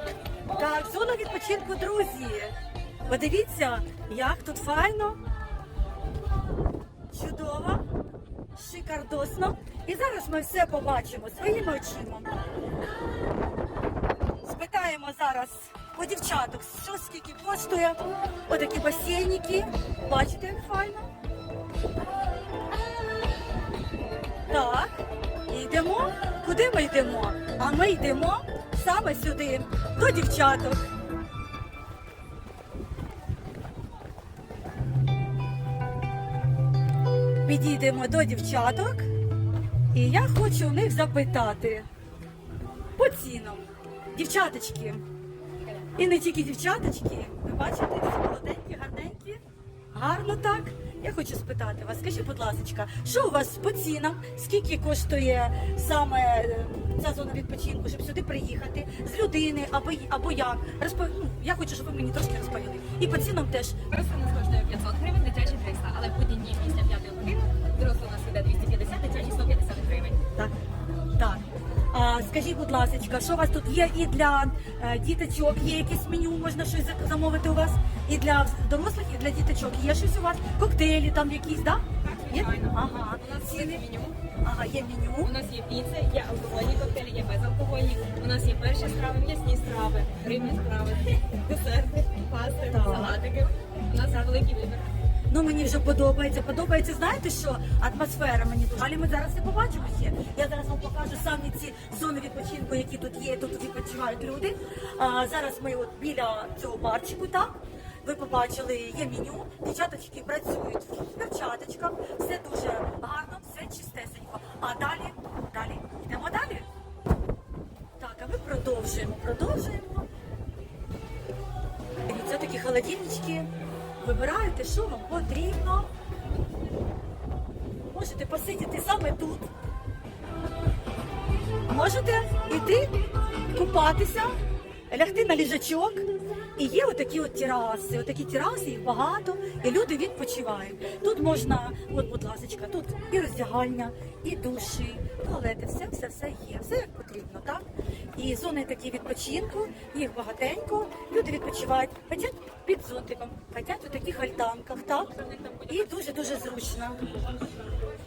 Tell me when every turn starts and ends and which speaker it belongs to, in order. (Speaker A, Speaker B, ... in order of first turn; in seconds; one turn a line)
Speaker A: 0.5-5.2
Speaker A: 7.1-7.8
Speaker A: 8.5-12.3
Speaker A: 14.4-21.1
Speaker A: 24.5-30.8
Speaker A: 37.4-39.1
Speaker A: 39.9-41.9
Speaker A: 43.0-45.0
Speaker A: 45.9-49.4
Speaker A: 49.9-63.8
Speaker B: 63.9-70.2
Speaker A: 71.1-83.8
Speaker B: 82.0-84.2
Speaker A: 84.4-85.3
Speaker B: 85.2-94.9
Speaker A: 92.7-93.2
Speaker A: 95.3-116.7
Speaker A: 118.0-120.1
Speaker A: 122.1-123.5
Speaker A: 124.0-125.9
Speaker A: 127.9-129.5
Speaker A: 131.7-134.4
Speaker A: 134.9-136.0
Speaker A: 136.6-147.6
Speaker A: 148.1-157.1
Speaker B: 155.2-156.2